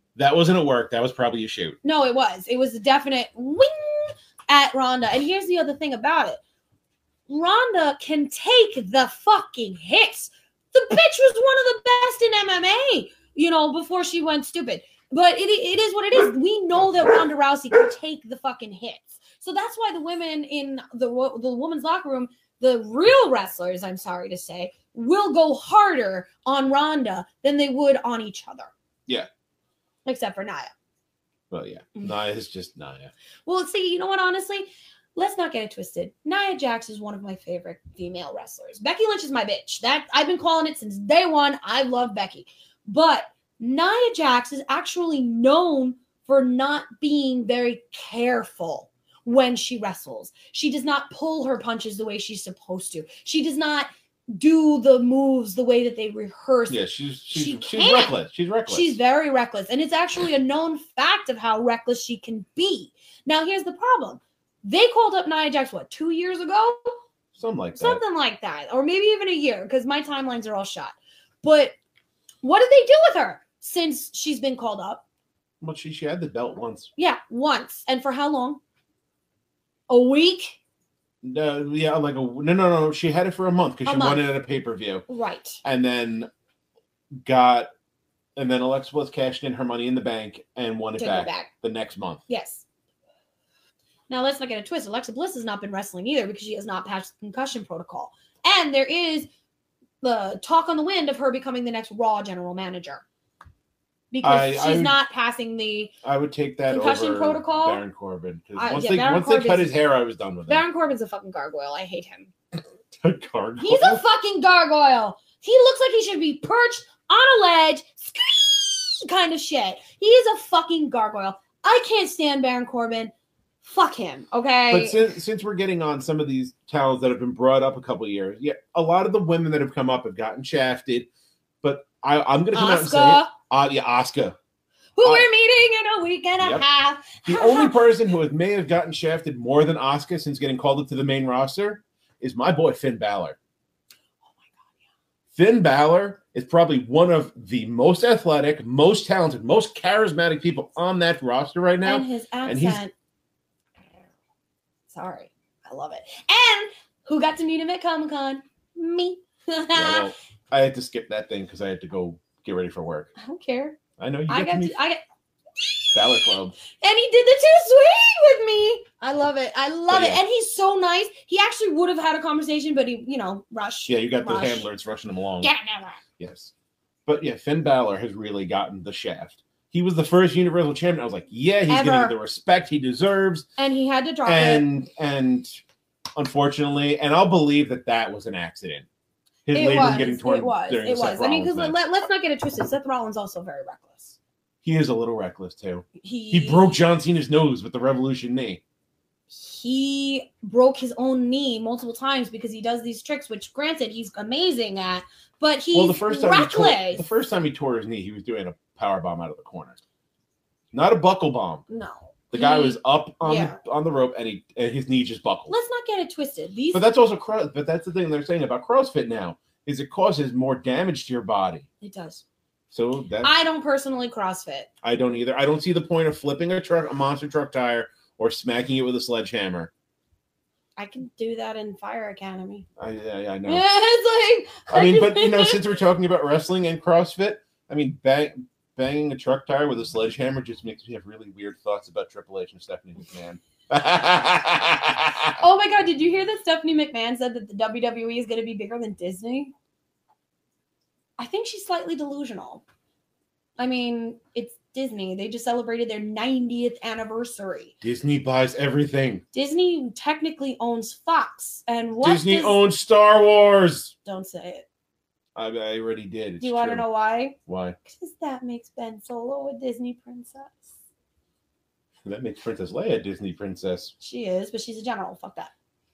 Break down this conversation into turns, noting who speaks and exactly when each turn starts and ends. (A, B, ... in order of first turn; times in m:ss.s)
0:00.2-0:01.8 A
0:01.8-0:06.4 B
0:07.3-0:28.7 B
0:30.0-0:30.7 B
0:31.5-0:33.1 A
0:33.5-0:56.8 B
0:56.7-0:58.9 A
0:57.3-0:58.2 B
0:58.7-1:06.9 B
1:07.4-1:08.0 A
1:07.8-1:11.8 B
1:12.4-1:15.0 B
1:15.6-1:16.9 A
1:17.0-1:18.6 B
1:19.9-1:20.6 B
1:21.2-1:25.0 A
1:23.8-1:24.3 B
1:25.1-1:25.6 B
1:25.6-1:26.3 A
1:27.2-1:27.7 A
1:28.4-1:32.2 A
1:31.0-1:31.5 B
1:32.3-1:32.6 B
1:34.1-1:39.3 B
1:40.0-1:43.0 B
1:44.1-1:45.9 B
1:44.2-1:45.0 A
1:46.0-1:50.6 A
1:46.7-1:47.8 B
1:48.6-1:49.8 B
1:50.5-1:52.3 B
1:53.0-1:54.0 A
1:53.6-2:03.1 B
2:03.6-2:05.0 B
2:04.7-2:11.1 A
2:11.6-2:14.4 A
2:12.5-2:13.3 B
2:15.0-2:17.8 B
2:17.2-2:23.4 A
2:25.4-2:32.8 A
2:31.8-2:32.9 B
2:34.9-2:40.1 B
2:39.8-2:43.1 A
2:43.2-2:45.0 B
2:44.0-2:44.7 A
2:45.6-2:46.0 B
2:45.9-2:46.6 A
2:46.8-2:54.7 B
2:49.9-2:50.2 A
2:53.9-2:55.5 A
2:55.4-2:56.0 B
2:56.2-2:56.5 A
2:57.1-3:03.5 A
3:01.7-3:02.2 B
3:03.6-3:04.6 B
3:04.3-3:05.6 A
3:06.2-3:08.9 A
3:09.5-3:11.8 A
3:09.5-3:14.2 B
3:14.6-3:18.6 A
3:16.0-3:16.8 B
3:19.3-3:27.1 B
3:25.7-3:29.8 A
3:30.7-3:31.6 A
3:31.7-3:33.6 B
3:32.3-3:35.5 A
3:35.5-3:36.8 B
3:36.7-3:41.7 A
3:41.8-3:42.2 B
3:42.7-3:43.3 A
3:43.2-3:44.7 B
3:44.8-3:49.7 A
3:50.8-3:52.7 B
3:52.8-3:53.6 A
3:53.5-3:55.6 B
3:54.7-4:05.4 A
4:05.4-4:09.5 B
4:11.2-4:12.6 B
4:13.6-4:17.8 B
4:17.8-4:19.2 A
4:19.3-4:22.6 B
4:22.0-4:23.9 A
4:24.0-4:24.7 B
4:25.4-4:26.9 A
4:26.4-4:30.7 B
4:27.5-4:27.8 A
4:32.0-4:33.9 A
4:34.0-4:35.5 B